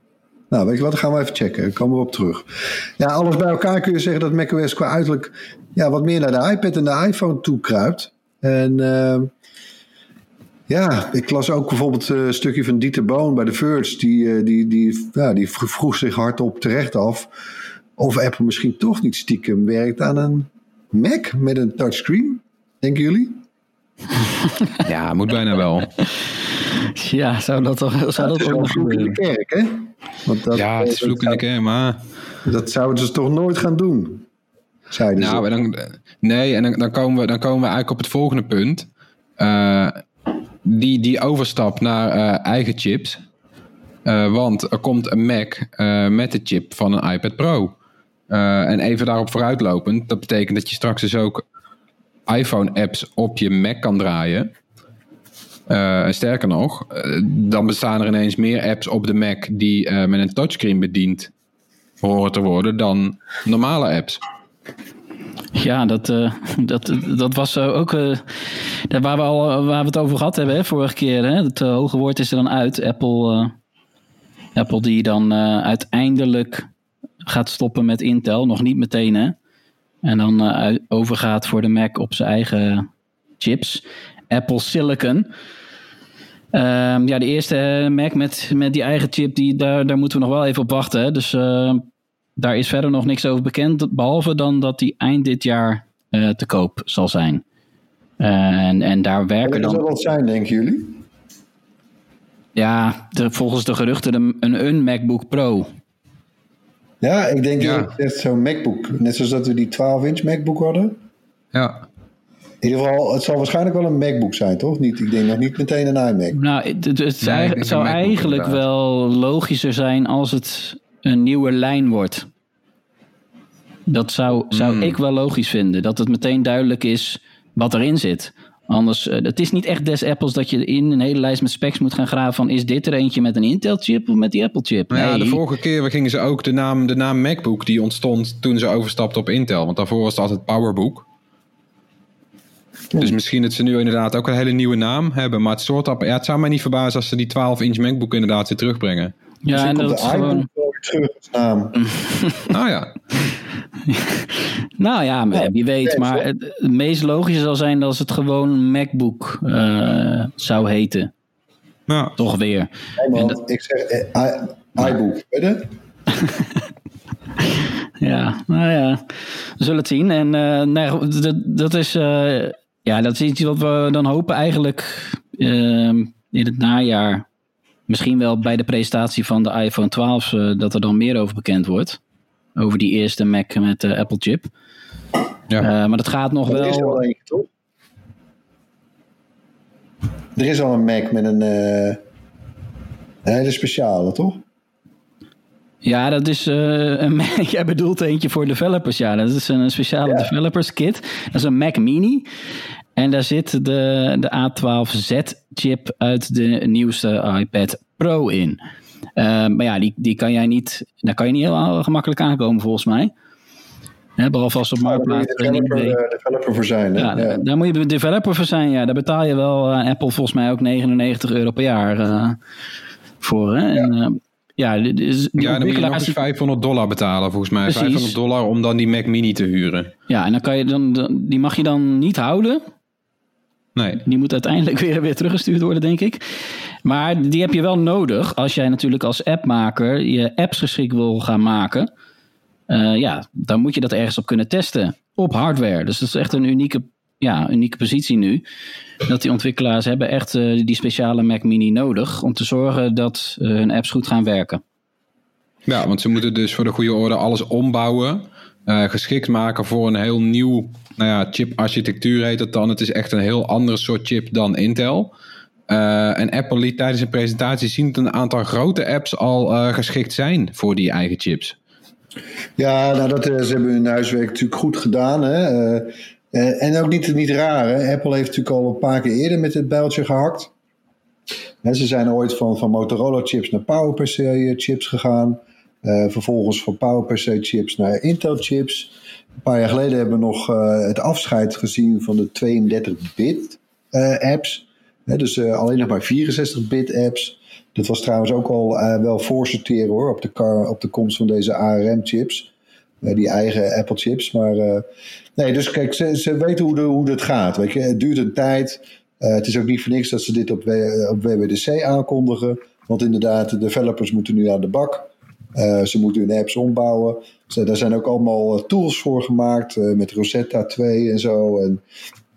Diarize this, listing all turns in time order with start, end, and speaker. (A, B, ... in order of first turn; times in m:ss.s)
0:00.5-0:09.3 A
0:10.7-0:17.3 A
0:18.0-0:23.4 A
0:24.8-0:25.9 B
0:27.0-0:29.2 C
0:28.2-0:31.4 A
0:30.5-0:32.0 B
0:32.4-0:34.3 A
0:34.9-0:35.4 A
0:35.2-0:38.9 B
0:39.4-0:40.0 B
0:40.6-0:43.2 B
0:44.0-0:47.7 B
0:48.3-0:51.4 B
0:52.3-0:54.5 B
0:55.7-1:01.3 B
1:02.0-1:04.2 B
1:05.6-1:08.2 C
1:08.9-1:13.5 C
1:14.6-1:16.7 C
1:17.3-1:19.4 C
1:20.0-1:22.9 C
1:23.4-1:25.3 C
1:26.5-1:31.8 C
1:32.4-1:37.4 C
1:38.2-1:39.8 C
1:39.4-1:41.0 A
1:42.6-1:45.7 C
1:47.0-1:51.0 A
1:47.6-1:47.9 B
1:51.5-1:51.8 B
1:52.6-1:56.4 A
1:56.3-2:02.3 C
1:57.2-1:58.6 B
2:03.9-2:15.4 C
2:04.5-2:05.0 B
2:14.9-2:21.1 B
2:23.0-2:29.1 B
2:29.4-2:30.5 C
2:29.5-2:31.8 A
2:31.8-2:32.4 C
2:32.5-2:33.0 B
2:33.9-2:41.1 C
2:35.8-2:36.3 A
2:41.9-2:42.2 B
2:42.2-2:43.4 C
2:43.0-2:45.7 A
2:46.2-2:46.5 C
2:48.0-2:49.0 C
2:49.6-2:57.2 C
2:57.9-3:02.0 C
3:02.6-3:04.5 C
3:05.6-3:07.0 C
3:06.5-3:07.5 A
3:10.4-3:12.0 A
3:13.2-3:14.4 A
3:15.8-3:22.3 C
3:23.0-3:28.6 C
3:29.2-3:33.1 C
3:34.2-3:36.0 C
3:34.8-3:37.4 A
3:37.0-3:42.4 C
3:43.2-3:46.2 C
3:45.4-3:49.9 B
3:47.7-3:48.2 C
3:50.1-3:52.6 C
3:53.8-3:54.0 B
3:54.0-3:56.2 C
3:56.8-4:01.9 C
4:02.7-4:08.4 C
4:09.1-4:14.6 C
4:15.7-4:25.1 B
4:25.7-4:31.6 B
4:32.6-4:40.5 A
4:41.6-5:02.5 A
5:03.0-5:21.8 A